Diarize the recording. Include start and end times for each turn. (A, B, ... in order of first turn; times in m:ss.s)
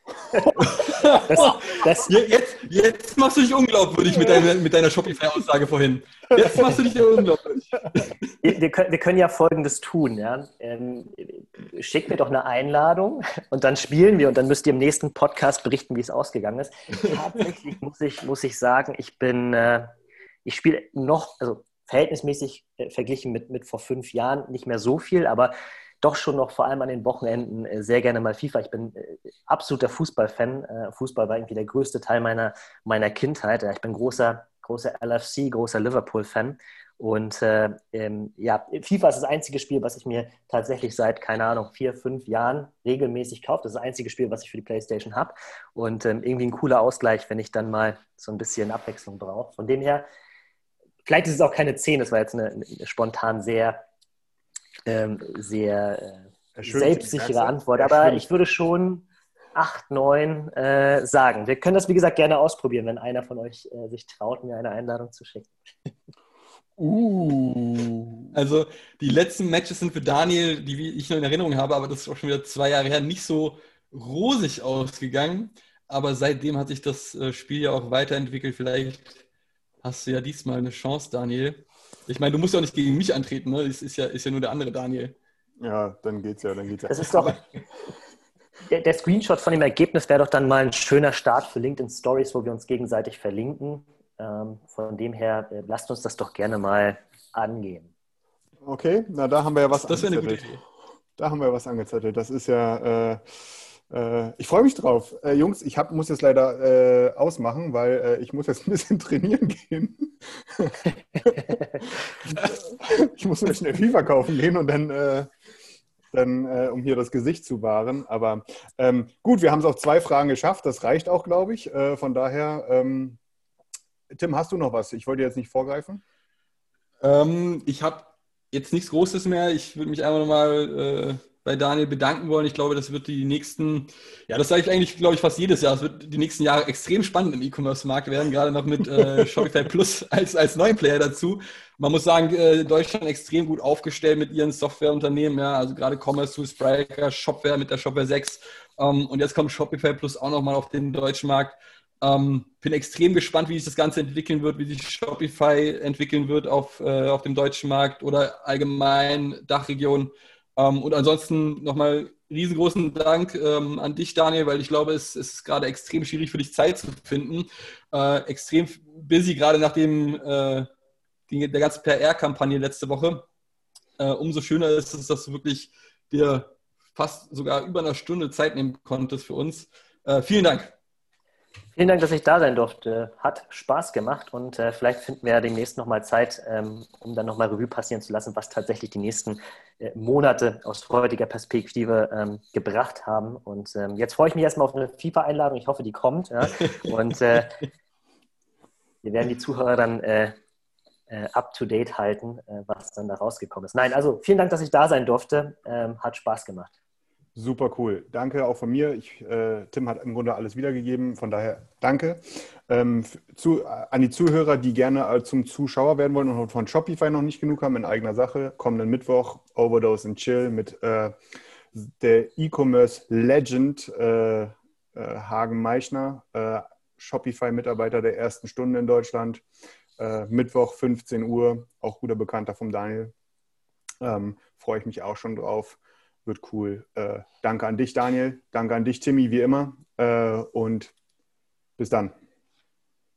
0:00.6-0:08.1 A
0:01.3-0:02.1 B
0:08.4-0:19.9 B
0:20.4-0:50.0 B
0:51.1-0:53.8 B
0:54.9-1:05.5 B
0:56.6-0:58.2 C
1:06.8-1:08.3 C
1:08.3-1:19.2 A
1:19.8-1:25.2 A
1:25.6-1:27.4 C
1:26.9-1:27.4 B
1:28.7-1:37.9 B
1:38.6-1:40.5 C
1:39.7-1:40.6 A
1:41.2-1:43.2 C
1:43.9-1:55.3 C
1:56.1-2:03.2 C
2:04.1-2:06.0 C
2:07.0-2:50.7 A
2:51.3-2:53.2 A
2:54.0-3:00.8 A
3:01.8-3:17.6 B
3:19.0-3:20.4 B
3:21.1-3:26.7 B
3:27.4-3:41.2 C
3:41.7-3:49.4 C
3:50.0-3:53.1 C
3:54.0-4:00.9 C
4:01.8-4:02.2 C